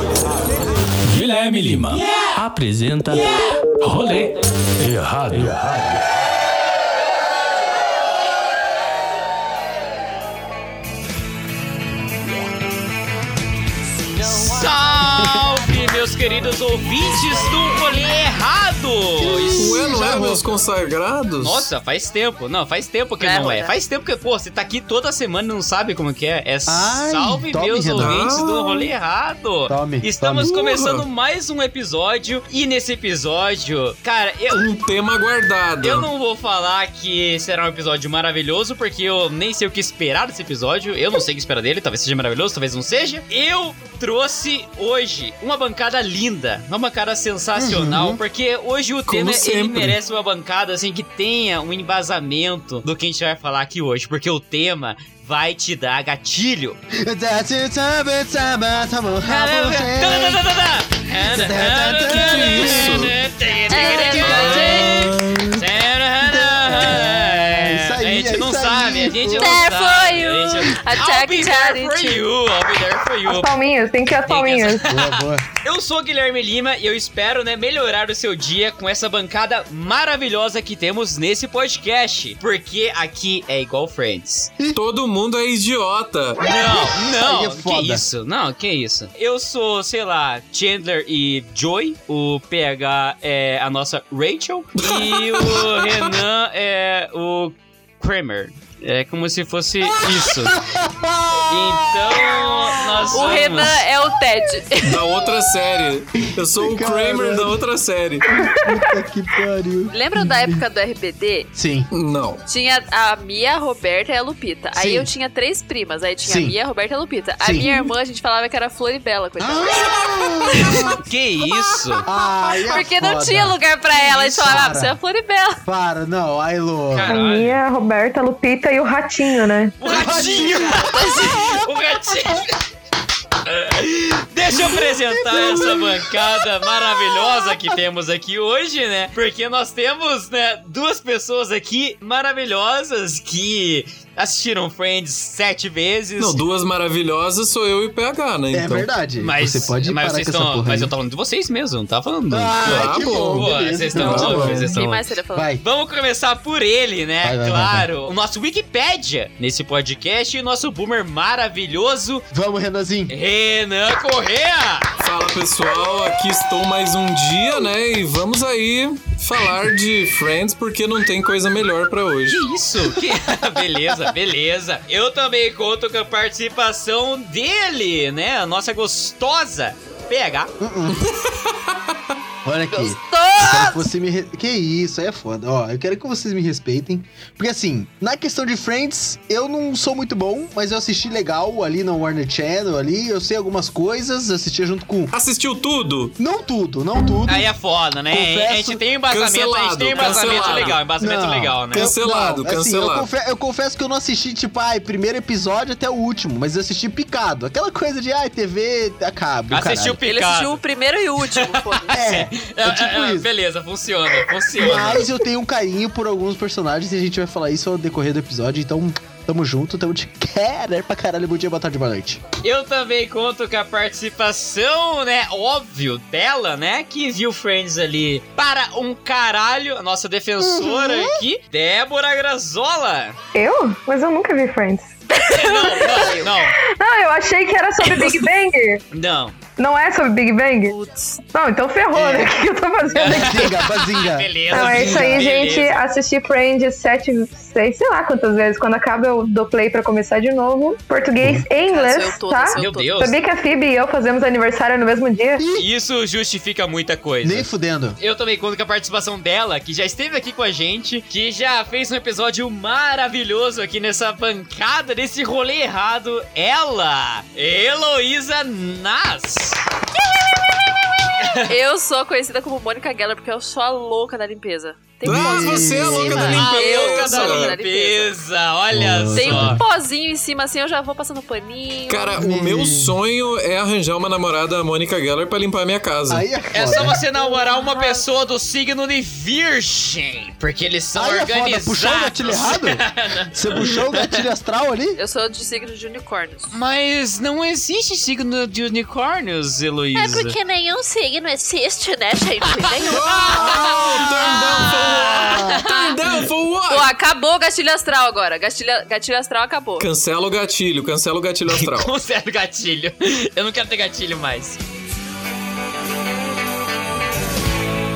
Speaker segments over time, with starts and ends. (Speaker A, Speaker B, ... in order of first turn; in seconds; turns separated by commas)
Speaker A: 1.0-6.0, Speaker B: 1.9-2.3, Speaker B: 3.1-3.4, Speaker B: 14.2-19.9, Speaker C: 14.3-15.4, Speaker C: 19.2-20.4, Speaker D: 19.6-21.7, Speaker B: 21.4-34.7, Speaker E: 23.2-23.7, Speaker C: 26.7-28.3, Speaker D: 28.0-28.9, Speaker C: 29.7-30.5, Speaker D: 30.4-31.1, Speaker D: 34.5-36.1, Speaker B: 35.8-56.8, Speaker C: 47.5-48.2, Speaker D: 49.1-50.0, Speaker C: 56.9-60.4, Speaker B: 59.2-73.5, Speaker C: 61.3-63.1, Speaker D: 62.1-63.1, Speaker E: 63.7-65.1, Speaker D: 64.2-65.7, Speaker C: 66.2-69.6, Speaker E: 69.4-72.2, Speaker F: 73.2-74.8, Speaker B: 74.2-84.5, Speaker C: 74.8-75.5, Speaker D: 84.7-86.4, Speaker B: 86.4-100.6, Speaker C: 86.5-88.0, Speaker D: 94.7-96.1, Speaker C: 99.8-103.5, Speaker B: 101.5-103.8, Speaker E: 103.1-105.0, Speaker D: 104.8-108.2, Speaker C: 106.2-107.5, Speaker C: 108.2-110.6, Speaker E: 109.9-111.5, Speaker C: 111.5-111.9, Speaker D: 111.9-112.4, Speaker E: 112.5-120.9, Speaker C: 114.8-115.1, Speaker C: 116.2-116.6, Speaker C: 117.4-117.8, Speaker C: 119.4-121.0, Speaker B: 120.9-122.0, Speaker C: 122.0-125.0, Speaker E: 122.7-125.6, Speaker C: 125.7-127.1, Speaker B: 126.9-127.6, Speaker F: 127.1-129.8, Speaker B: 129.8-132.6, Speaker C: 129.8-131.6, Speaker E: 130.3-131.5, Speaker B: 133.4-146.4, Speaker C: 134.5-137.6, Speaker D: 146.2-148.9, Speaker C: 148.5-150.9, Speaker B: 149.2-155.0, Speaker C: 152.3-154.7, Speaker D: 152.6-154.8, Speaker E: 154.2-155.5, Speaker C: 155.3-155.6, Speaker B: 155.6-162.2, Speaker C: 157.2-157.9, Speaker C: 162.3-163.1, Speaker B: 163.1-164.9, Speaker D: 165.0-172.4, Speaker B: 172.3-180.5, Speaker C: 180.6-181.0, Speaker D: 180.9-182.1, Speaker C: 182.4-195.1, Speaker E: 182.7-183.8, Speaker D: 195.1-196.2, Speaker C: 196.2-197.5, Speaker B: 197.2-201.9, Speaker C: 198.1-198.8, Speaker D: 199.1-200.8, Speaker E: 199.9-200.8, Speaker C: 201.0-210.0, Speaker D: 201.7-203.1, Speaker B: 209.5-210.6, Speaker E: 210.0-212.0, Speaker B: 211.2-215.1, Speaker C: 211.9-213.3, Speaker C: 214.6-222.2, Speaker B: 222.4-233.2, Speaker C: 230.4-231.2, Speaker F: 233.3-238.8, Speaker B: 235.2-236.6, Speaker B: 237.8-238.3, Speaker B: 238.9-239.3, Speaker F: 239.6-240.7, Speaker E: 240.7-241.2, Speaker F: 241.3-243.6, Speaker C: 241.9-242.4, Speaker B: 242.9-245.8, Speaker C: 243.0-245.3, Speaker F: 244.5-255.4, Speaker C: 251.2-251.5, Speaker E: 251.7-253.1, Speaker B: 252.6-253.2, Speaker C: 255.4-255.7, Speaker B: 255.6-257.5, Speaker C: 257.2-258.0, Speaker B: 258.0-269.6, Speaker B: 271.2-271.5, Speaker E: 271.4-278.1, Speaker C: 275.0-276.4, Speaker D: 275.0-277.6, Speaker B: 276.1-279.6, Speaker C: 278.7-279.6, Speaker E: 279.1-282.3, Speaker D: 281.9-286.3, Speaker C: 282.2-282.9, Speaker C: 286.1-287.0, Speaker B: 286.5-294.2, Speaker E: 287.1-288.0, Speaker C: 290.9-295.0, Speaker E: 295.0-296.5, Speaker B: 296.5-300.3, Speaker E: 299.9-304.3, Speaker B: 302.8-305.6, Speaker D: 302.9-306.9, Speaker C: 303.4-303.9, Speaker E: 305.6-305.9, Speaker E: 306.7-309.9, Speaker D: 309.8-311.9, Speaker B: 311.5-314.6